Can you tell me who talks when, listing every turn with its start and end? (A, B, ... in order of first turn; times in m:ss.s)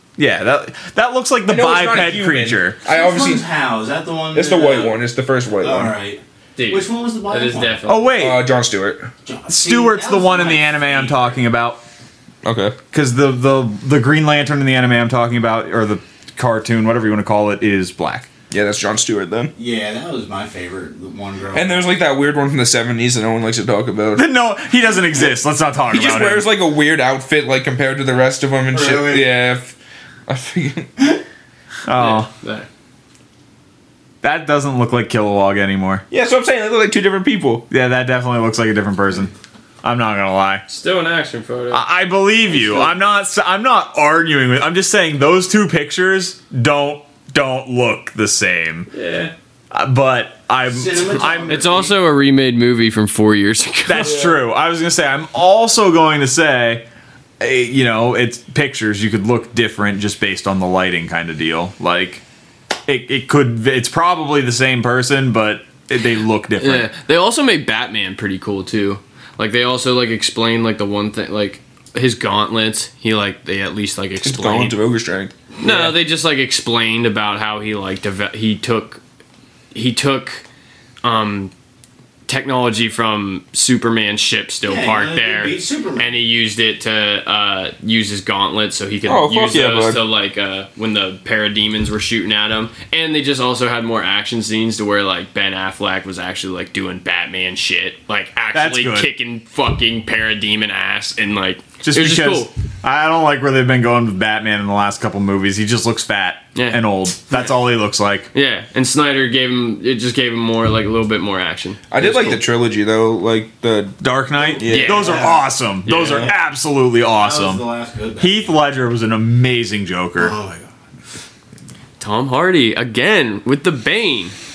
0:00.2-0:02.8 A
0:01.5-0:03.4 B
0:02.9-0:05.0 C
0:04.3-0:05.9 B
0:05.6-0:07.8 C
0:06.6-0:08.2 D
0:07.9-0:08.4 A
0:08.2-0:09.1 B
0:09.2-0:11.4 C
0:09.5-0:11.8 A
0:12.4-0:12.8 B
0:12.9-0:18.3 A
0:18.5-0:19.5 B
0:19.6-0:21.9 C
0:21.5-0:24.3 B
0:24.2-0:26.5 A
0:25.9-0:29.7 B
0:28.7-0:29.3 C
0:30.3-0:31.1 B
0:31.9-0:32.3 A
0:31.9-0:32.7 D
0:34.2-0:36.0 A
0:36.1-0:37.7 B
0:37.7-0:40.6 A
0:40.7-0:41.8 D
0:41.7-0:48.9 A
0:42.5-0:42.9 C
0:48.9-0:49.3 D
0:49.7-0:51.7 A
0:50.7-0:52.0 C
0:51.4-0:54.4 D
0:53.9-0:56.8 A
0:57.4-1:02.2 A
1:02.9-1:06.9 A
1:06.6-1:14.8 D
1:14.2-1:15.3 B
1:15.6-1:19.0 D
1:19.7-1:20.4 D
1:21.0-1:21.5 D
1:22.3-1:42.5 D
1:24.6-1:26.2 C
1:29.1-1:30.0 B
1:38.5-1:39.1 A
1:41.8-1:48.3 A
1:46.6-1:47.6 D
1:48.3-1:52.4 D
1:51.9-1:55.2 B
1:54.0-1:57.6 A
1:54.7-1:56.3 D
1:55.0-1:55.4 C
1:57.2-1:58.5 C
1:58.2-2:00.4 A
2:00.2-2:00.7 C
2:02.0-2:04.4 D